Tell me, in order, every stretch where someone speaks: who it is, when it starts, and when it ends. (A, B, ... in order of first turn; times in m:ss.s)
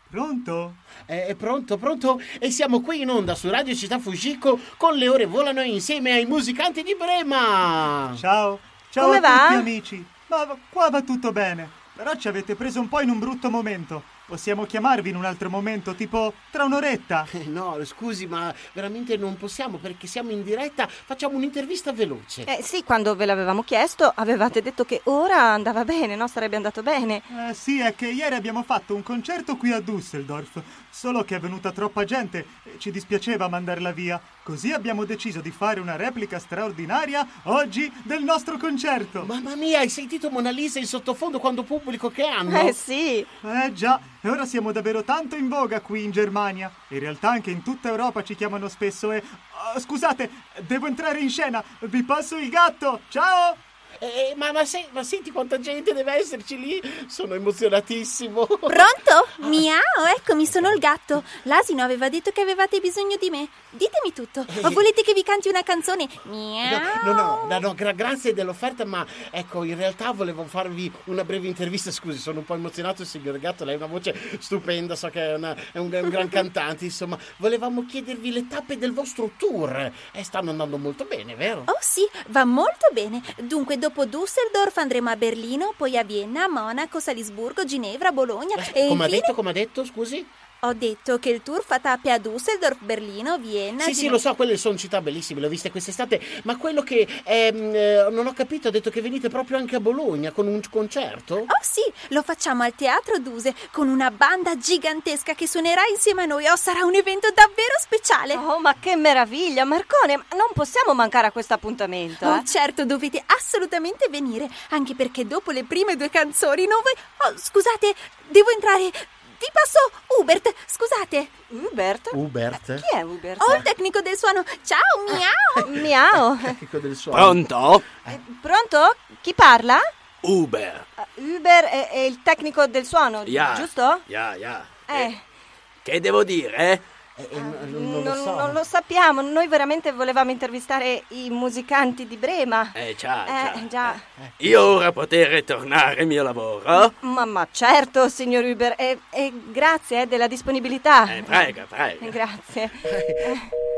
0:00.1-0:00.8 A
0:01.1-0:08.2 B
0:08.1-0:17.3 A
0:09.0-0:09.7 C
0:17.3-0:22.5 B
0:22.5-0:27.2 C
0:27.3-0:39.3 A
0:39.2-0:42.8 B
0:42.5-0:43.3 C
0:43.4-0:53.6 A
0:54.0-0:59.7 B
0:58.7-1:07.6 D
1:00.4-1:00.8 B
1:04.5-1:04.9 B
1:06.6-1:21.7 B
1:21.7-1:29.3 D
1:28.6-1:30.3 B
1:30.6-1:34.2 D
1:33.8-1:41.5 B
1:41.5-1:48.4 D
1:48.3-1:52.5 C
1:52.2-2:01.3 D
2:01.5-2:03.7 C
2:02.1-2:02.9 B
2:03.4-2:05.6 D
2:05.1-2:07.4 B
2:05.6-2:06.6 C
2:07.1-2:07.8 E
2:08.1-2:09.9 C
2:10.2-2:10.8 E
2:11.0-2:14.0 C
2:13.2-2:15.1 E
2:14.9-2:15.2 C
2:15.8-2:16.8 E
2:17.2-2:18.6 B
2:17.3-2:24.0 C
2:22.8-2:26.9 E
2:26.8-2:33.5 C
2:31.1-2:32.2 E
2:32.8-2:33.4 B